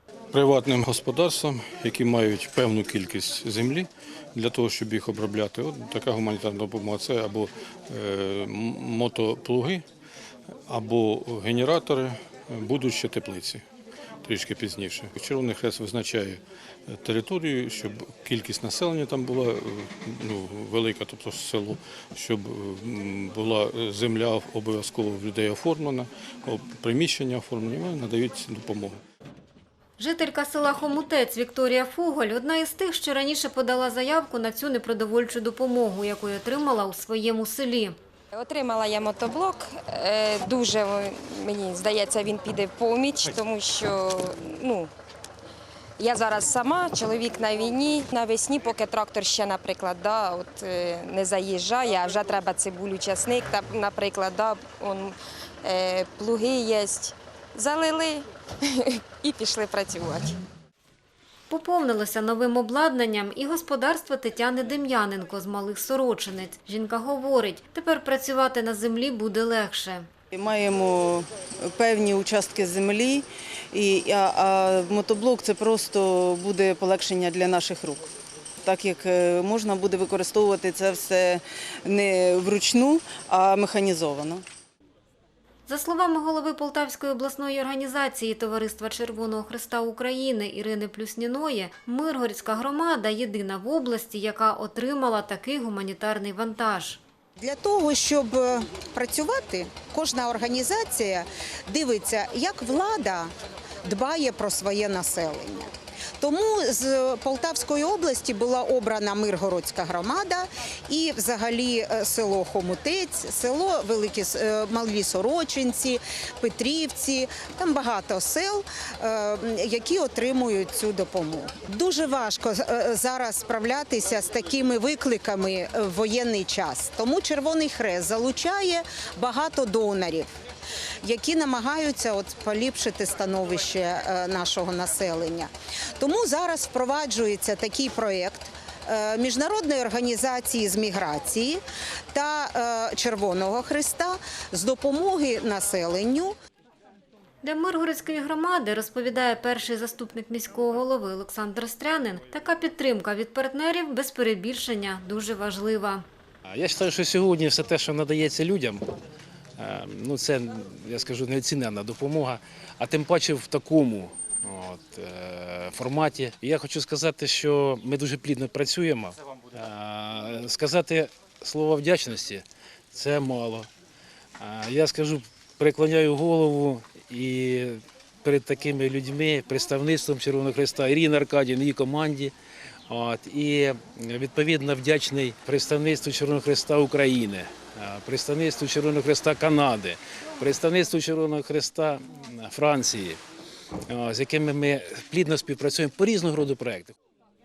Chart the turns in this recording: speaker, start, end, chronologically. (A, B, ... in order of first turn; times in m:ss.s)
0:00.3-0:09.8 A
0:10.7-0:13.6 A
0:14.2-0:29.0 A
0:30.0-0:38.0 B
0:38.3-0:44.9 C
0:46.0-1:00.4 C
1:01.5-1:10.1 B
1:10.3-1:18.0 D
1:18.6-1:24.4 D
1:25.7-1:37.0 B
1:37.4-1:43.3 E
1:43.8-1:45.7 E
1:46.2-2:10.3 E
2:11.0-2:26.4 E
2:27.4-2:36.0 B
2:36.5-2:39.0 F
2:39.6-2:53.7 F
2:54.4-3:02.3 F
3:02.9-3:13.2 F
3:13.9-3:17.0 F